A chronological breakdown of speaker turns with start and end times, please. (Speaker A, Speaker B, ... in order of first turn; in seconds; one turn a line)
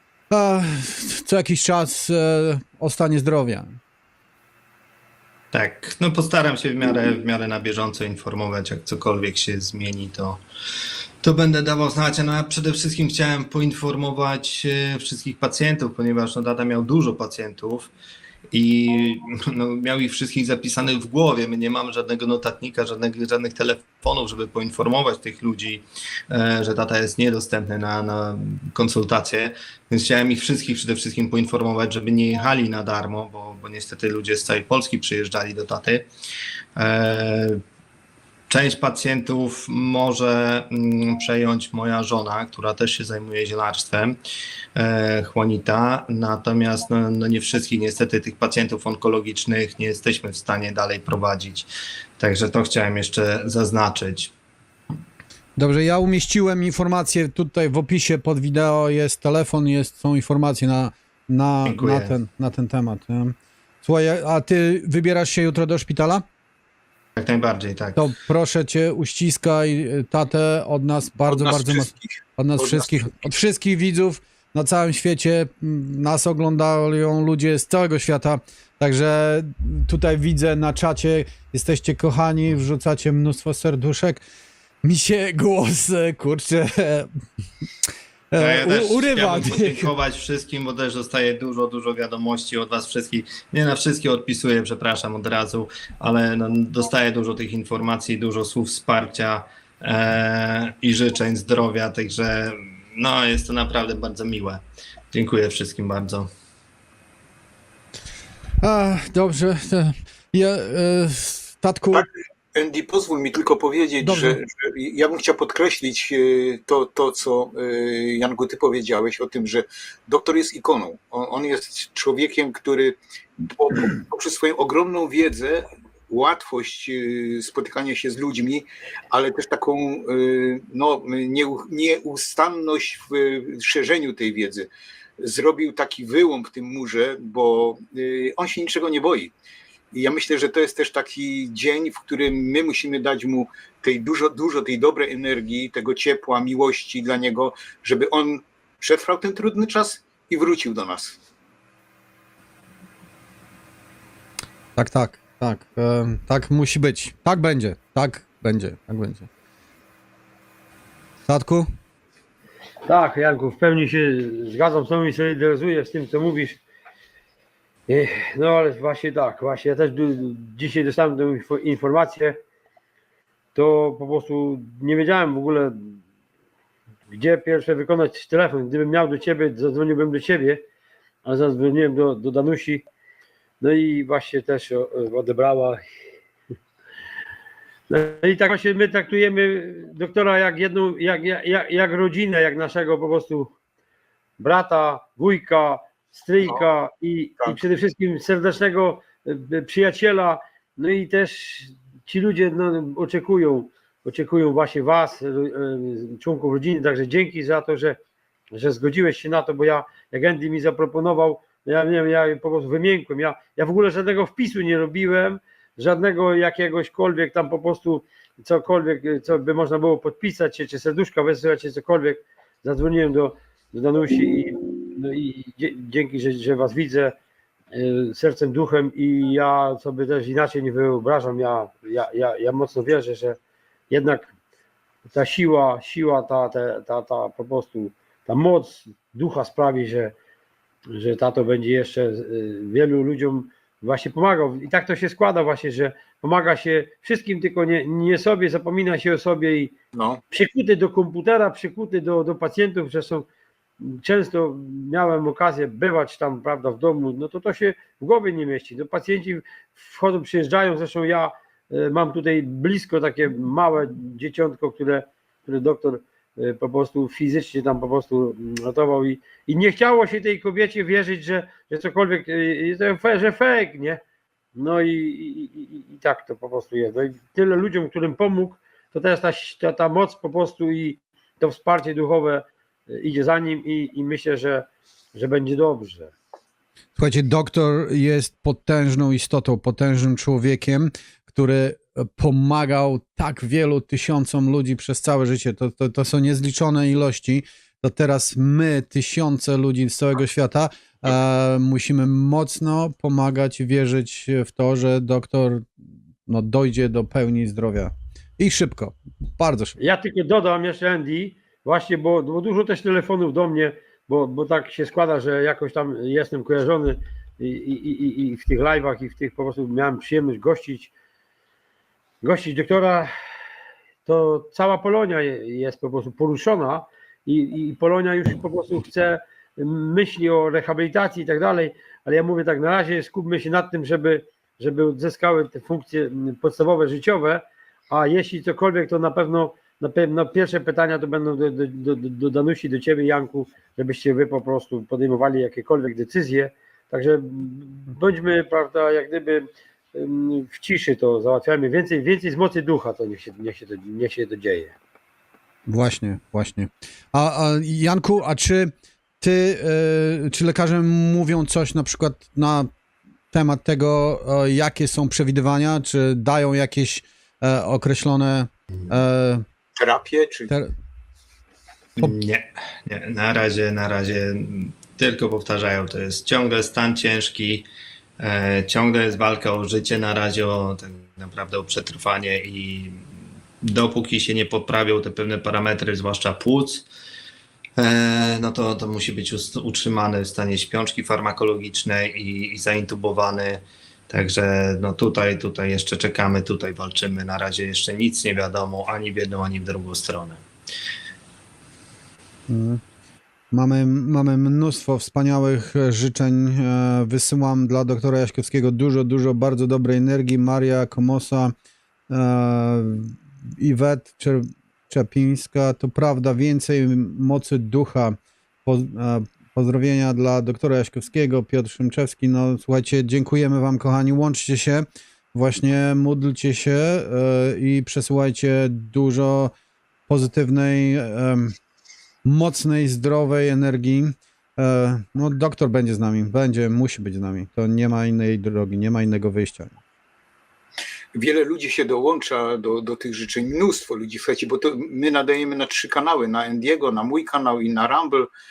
Speaker A: 0.3-3.8
Speaker B: 5.5-10.4
Speaker B: 11.2-17.9
Speaker B: 18.5-36.1
Speaker B: 36.8-37.6
Speaker B: 38.5-44.2
Speaker B: 44.8-51.7
Speaker B: 52.2-54.3
Speaker A: 55.6-66.2
Speaker B: 61.7-62.1
Speaker B: 67.2-68.0
Speaker A: 68.0-84.2
Speaker C: 71.3-73.1
Speaker A: 84.8-87.1
Speaker A: 88.3-89.9
Speaker B: 88.4-104.6
Speaker B: 105.1-106.3
Speaker A: 108.6-112.0
Speaker C: 111.9-134.7
Speaker A: 114.0-114.4
Speaker C: 135.2-139.3
Speaker C: 139.9-151.2
Speaker A: 154.8-159.3
Speaker A: 161.3-161.7
Speaker D: 162.8-166.6
Speaker D: 167.9-172.4
Speaker D: 173.6-176.0
Speaker D: 177.1-180.6
Speaker D: 181.2-182.8
Speaker D: 183.6-185.8
Speaker D: 187.9-193.5
Speaker D: 194.4-208.0
Speaker D: 208.5-227.1
Speaker D: 227.7-233.4
Speaker D: 233.9-234.3
Speaker D: 235.1-240.1
Speaker D: 240.9-249.7
Speaker C: 249.9-250.2
Speaker D: 250.3-253.3
Speaker D: 253.8-274.0
Speaker D: 274.6-286.1
Speaker A: 287.0-305.7
Speaker A: 306.3-309.8
Speaker D: 309.8-320.9
Speaker D: 322.2-323.1
Speaker D: 324.1-354.8
Speaker A: 355.7-362.7
Speaker A: 363.3-369.4
Speaker C: 369.8-370.5
Speaker B: 372.0-377.7
Speaker B: 378.2-383.0
Speaker B: 383.6-386.9
Speaker B: 387.8-400.4
Speaker A: 402.5-402.8
Speaker A: 403.5-411.5
Speaker A: 412.1-429.5
Speaker A: 430.1-431.6
Speaker A: 432.2-439.8
Speaker C: 441.1-448.3